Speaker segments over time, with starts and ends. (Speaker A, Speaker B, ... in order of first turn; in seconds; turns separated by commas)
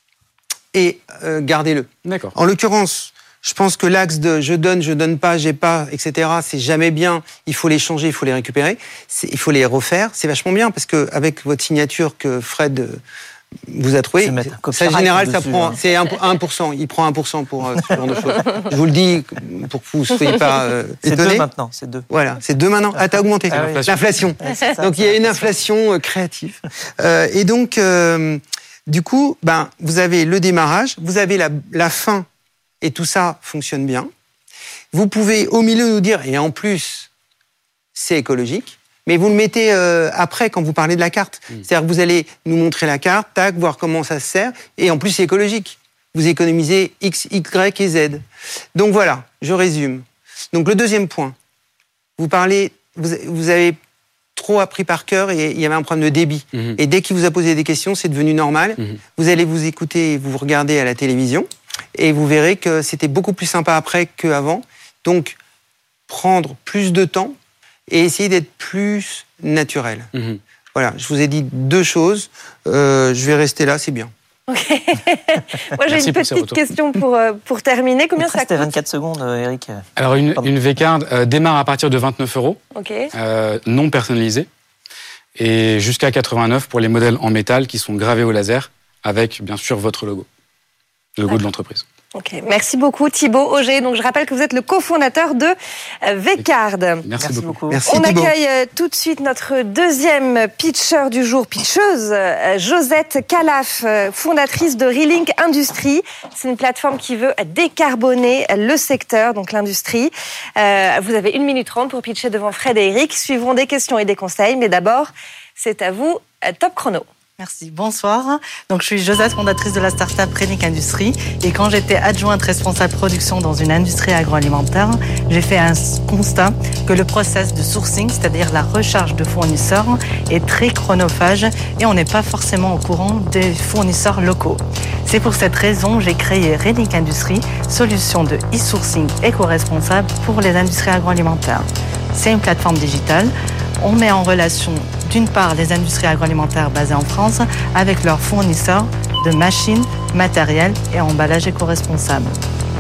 Speaker A: 0.7-13.0, Speaker B: 2.1-2.3, Speaker A: 13.7-21.5, Speaker C: 14.2-15.8, Speaker C: 21.0-22.1, Speaker A: 22.1-32.3, Speaker C: 22.9-25.6, Speaker B: 23.5-23.9, Speaker A: 32.8-34.1, Speaker A: 34.9-37.1, Speaker A: 38.0-51.4, Speaker A: 52.2-53.8, Speaker A: 54.4-65.4, Speaker A: 66.1-67.3, Speaker A: 67.9-70.1, Speaker B: 70.2-70.4, Speaker A: 70.7-74.1, Speaker D: 74.5-78.7, Speaker B: 75.9-76.6, Speaker C: 78.2-79.8, Speaker B: 80.0-82.6, Speaker D: 82.8-83.1, Speaker B: 83.1-84.5, Speaker B: 85.4-90.3, Speaker B: 91.2-91.8, Speaker D: 92.2-97.1, Speaker B: 97.1-97.6, Speaker C: 97.2-97.8, Speaker A: 97.7-98.3, Speaker D: 97.9-117.1, Speaker E: 117.4-152.4